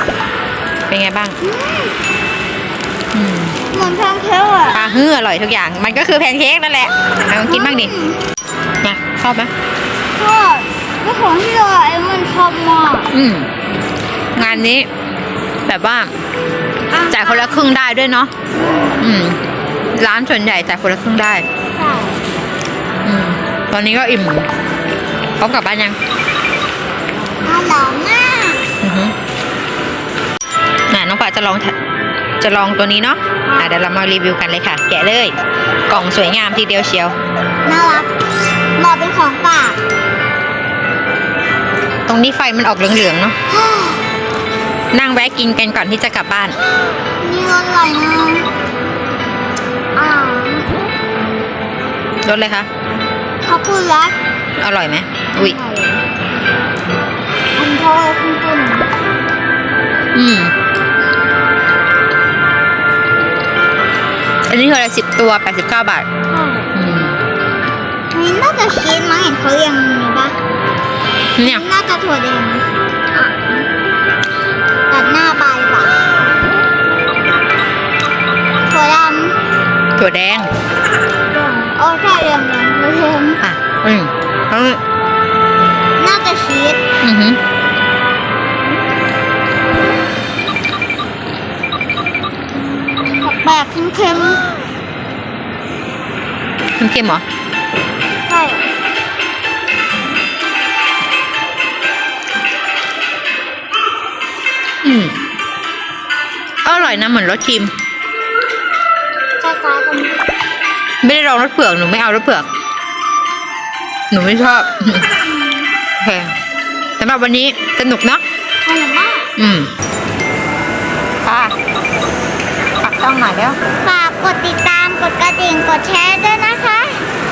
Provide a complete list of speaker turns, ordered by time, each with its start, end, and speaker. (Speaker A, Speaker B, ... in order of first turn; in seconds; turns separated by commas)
Speaker A: 0.9-1.4, Speaker B: 1.4-1.9, Speaker A: 3.1-3.6, Speaker B: 3.7-4.9, Speaker A: 4.7-7.9, Speaker B: 7.4-8.2, Speaker A: 8.8-9.5, Speaker B: 10.2-13.1, Speaker A: 13.1-13.5, Speaker A: 14.3-14.9, Speaker A: 15.7-16.1, Speaker B: 16.9-17.6, Speaker A: 17.1-18.3, Speaker B: 18.5-19.0, Speaker A: 19.0-19.4, Speaker A: 19.9-21.4, Speaker B: 21.7-22.2, Speaker A: 23.0-24.5, Speaker A: 25.4-26.0, Speaker B: 27.4-28.7, Speaker A: 28.8-29.1, Speaker A: 30.9-31.7, Speaker A: 32.4-35.3, Speaker B: 33.5-33.7, Speaker A: 35.9-37.1, Speaker B: 37.6-38.1, Speaker B: 38.8-39.8, Speaker A: 42.0-43.3, Speaker B: 43.5-44.0, Speaker A: 44.9-46.6, Speaker B: 47.2-48.5, Speaker B: 50.0-50.7, Speaker A: 52.2-52.7, Speaker B: 53.4-54.1, Speaker A: 54.6-55.6, Speaker B: 55.3-56.0, Speaker B: 57.6-58.9, Speaker A: 60.1-60.5, Speaker A: 64.5-66.0, Speaker B: 66.3-66.7, Speaker A: 66.7-67.2, Speaker B: 68.1-70.3, Speaker A: 71.4-71.7, Speaker B: 71.4-73.5, Speaker B: 74.9-75.9, Speaker B: 78.7-79.3, Speaker A: 80.0-80.5, Speaker B: 81.3-83.4, Speaker A: 83.4-84.8, Speaker B: 86.0-86.8, Speaker A: 87.0-87.4, Speaker B: 93.2-94.4, Speaker A: 96.8-97.2, Speaker B: 98.3-98.7, Speaker A: 104.8-105.2, Speaker A: 106.6-107.7, Speaker B: 109.4-110.2, Speaker A: 111.0-112.5, Speaker A: 114.1-115.1, Speaker A: 116.0-116.3, Speaker A: 117.0-118.2, Speaker B: 118.6-119.2, Speaker A: 119.4-119.7, Speaker A: 121.2-121.5, Speaker A: 122.8-123.6, Speaker B: 123.8-127.0